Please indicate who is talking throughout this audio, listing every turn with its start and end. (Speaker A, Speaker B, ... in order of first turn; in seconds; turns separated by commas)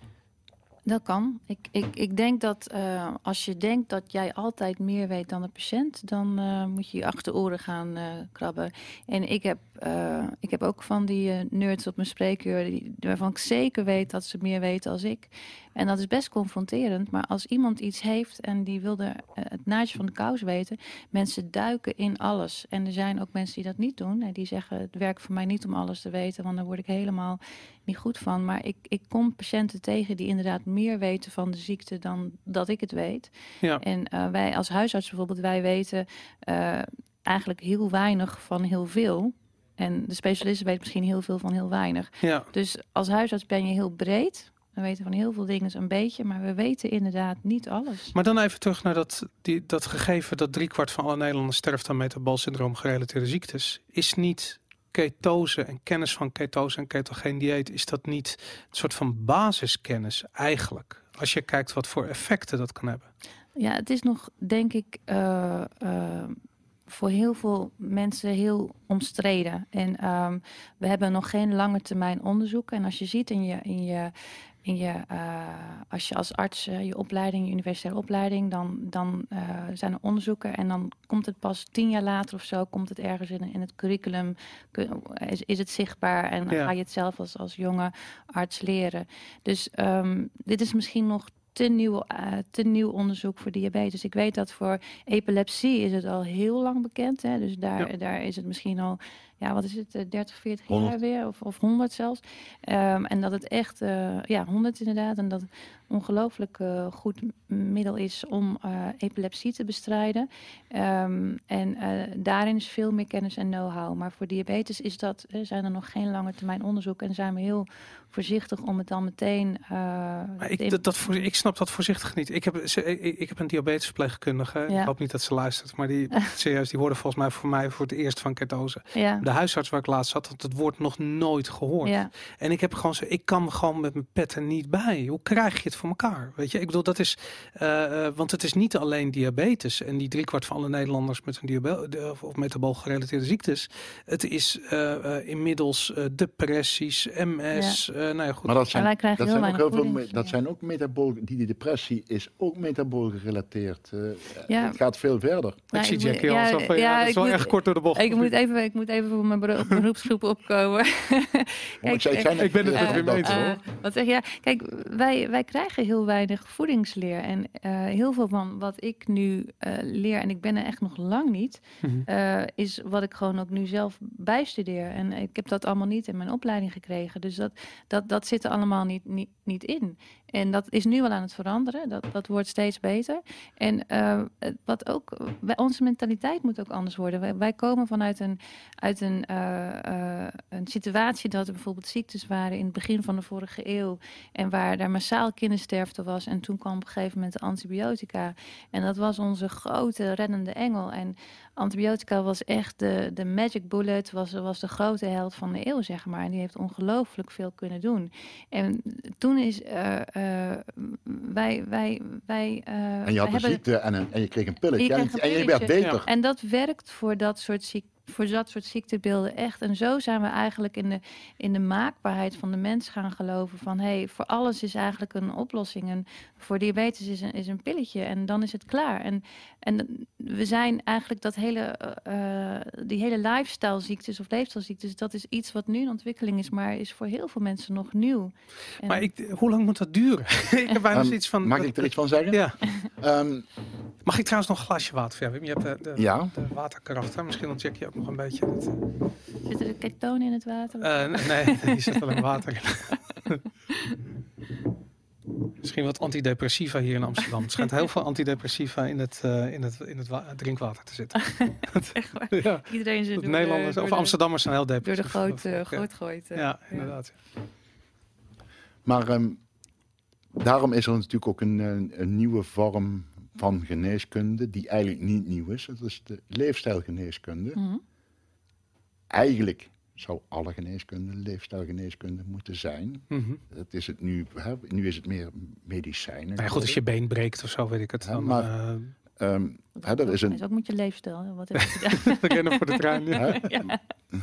Speaker A: 0.9-48.1, Speaker B: 42.2-42.5, Speaker B: 48.1-63.1, Speaker A: 63.5-74.1, Speaker A: 74.6-121.2, Speaker B: 120.4-148.6, Speaker A: 128.9-129.2, Speaker A: 131.8-132.1, Speaker A: 147.5-147.8, Speaker C: 148.4-155.6, Speaker A: 148.7-150.3, Speaker A: 154.5-154.8, Speaker B: 155.7-158.3, Speaker A: 155.7-213.6, Speaker C: 161.8-163.5, Speaker B: 162.3-163.6, Speaker C: 213.1-216.1, Speaker A: 214.8-239.1, Speaker B: 238.8-242.6, Speaker C: 240.9-243.4, Speaker B: 244.0-248.9, Speaker C: 246.0-246.3, Speaker A: 249.4-252.2, Speaker B: 250.8-253.4, Speaker B: 255.6-265.8, Speaker A: 261.1-264.2, Speaker A: 264.8-266.9, Speaker B: 266.3-267.1, Speaker C: 268.9-269.4, Speaker C: 270.4-277.6, Speaker A: 277.5-277.8, Speaker C: 279.1-286.8, Speaker B: 283.1-283.4, Speaker B: 286.4-288.9, Speaker C: 288.0-288.5, Speaker C: 289.2-290.4, Speaker A: 289.8-293.8, Speaker B: 292.0-293.4, Speaker C: 293.1-293.7